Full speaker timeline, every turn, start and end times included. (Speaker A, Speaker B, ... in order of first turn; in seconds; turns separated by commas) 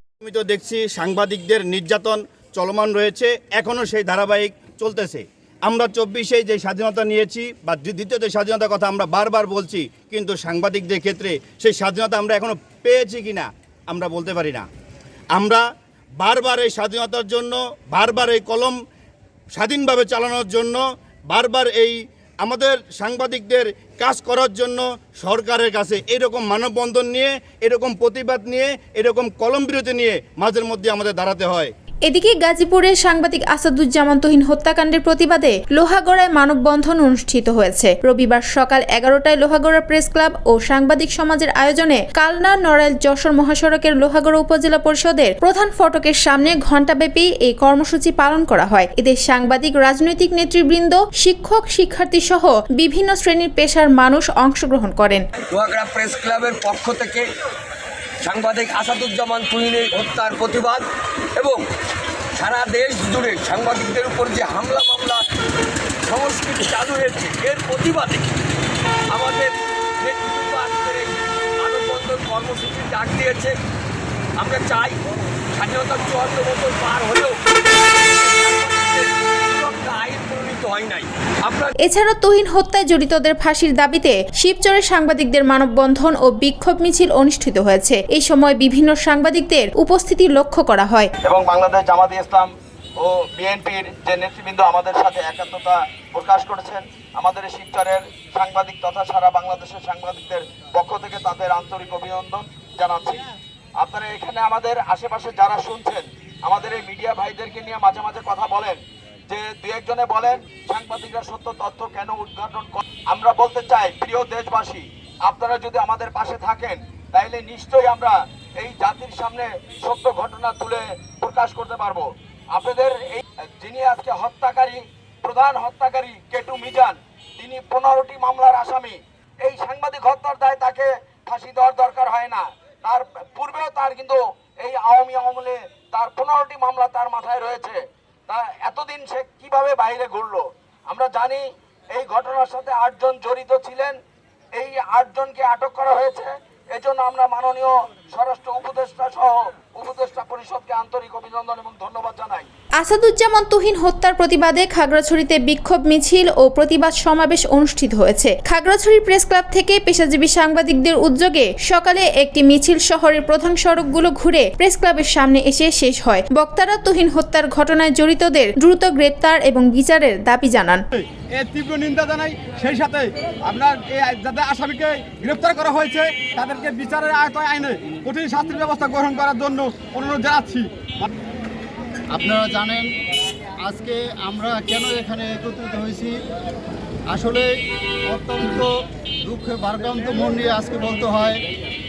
Speaker A: 0.2-14.7, Speaker A: 15.3-15.6, Speaker A: 16.2-18.8, Speaker A: 19.6-31.7, Speaker B: 32.1-55.2, Speaker C: 55.5-57.3, Speaker C: 58.2-60.9, Speaker C: 61.4-61.6, Speaker C: 62.4-65.2, Speaker C: 66.0-68.3, Speaker C: 69.1-73.6, Speaker C: 74.4-75.0, Speaker C: 75.5-81.7, Speaker B: 81.8-91.1, Speaker D: 91.2-144.0, Speaker D: 144.6-152.5, Speaker B: 152.8-170.8, Speaker E: 170.9-181.1, Speaker F: 182.1-182.9, Speaker F: 183.6-186.1, Speaker F: 187.1-187.5, Speaker F: 188.1-188.7, Speaker F: 189.2-191.4